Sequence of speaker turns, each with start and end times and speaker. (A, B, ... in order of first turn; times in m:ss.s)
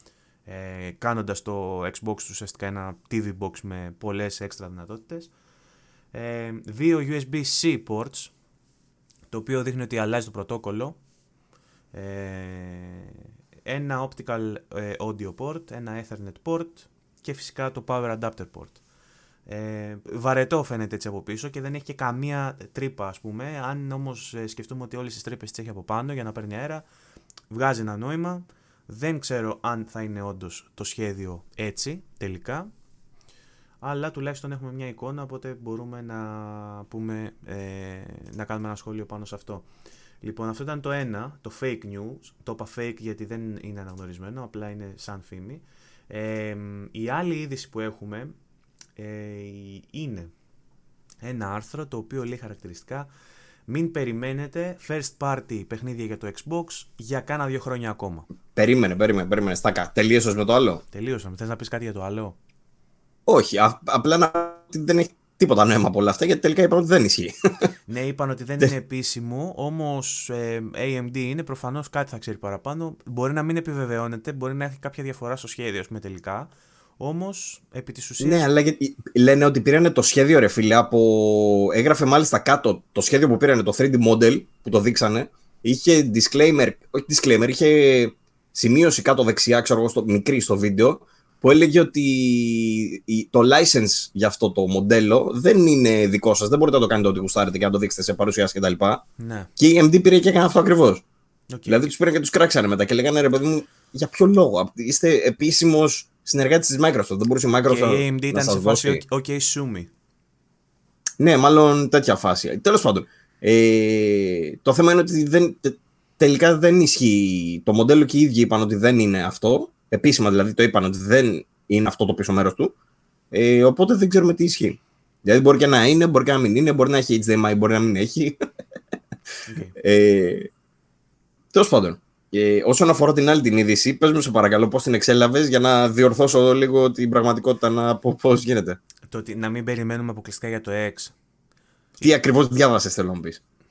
0:00.5-0:05.3 A
0:06.1-0:08.3 A
0:09.3-0:11.0 A
0:11.9-0:18.8 A
0:19.5-0:26.8 A
0:27.5-0:32.7 A
0:33.8-0:39.7 A
0:40.2-0:48.3 A
0:49.0-0:50.3 A
0:51.2-0:53.1 A
0:53.7-0:58.3 A
0:58.6-1:00.8 B
1:00.9-1:02.4 A
1:03.3-1:07.3 B
1:07.9-1:18.4 A
1:18.2-1:39.0 B
1:39.2-1:39.5 A
1:39.6-1:41.0 B
1:41.5-1:41.9 A
1:41.7-1:49.0 B
1:47.7-1:49.9 A
1:51.2-2:02.7 B
2:03.3-2:08.4 B
2:09.5-2:09.7 A
2:09.8-2:10.5 B
2:11.5-2:18.8 B
2:19.1-2:21.1 A
2:22.0-2:23.4 B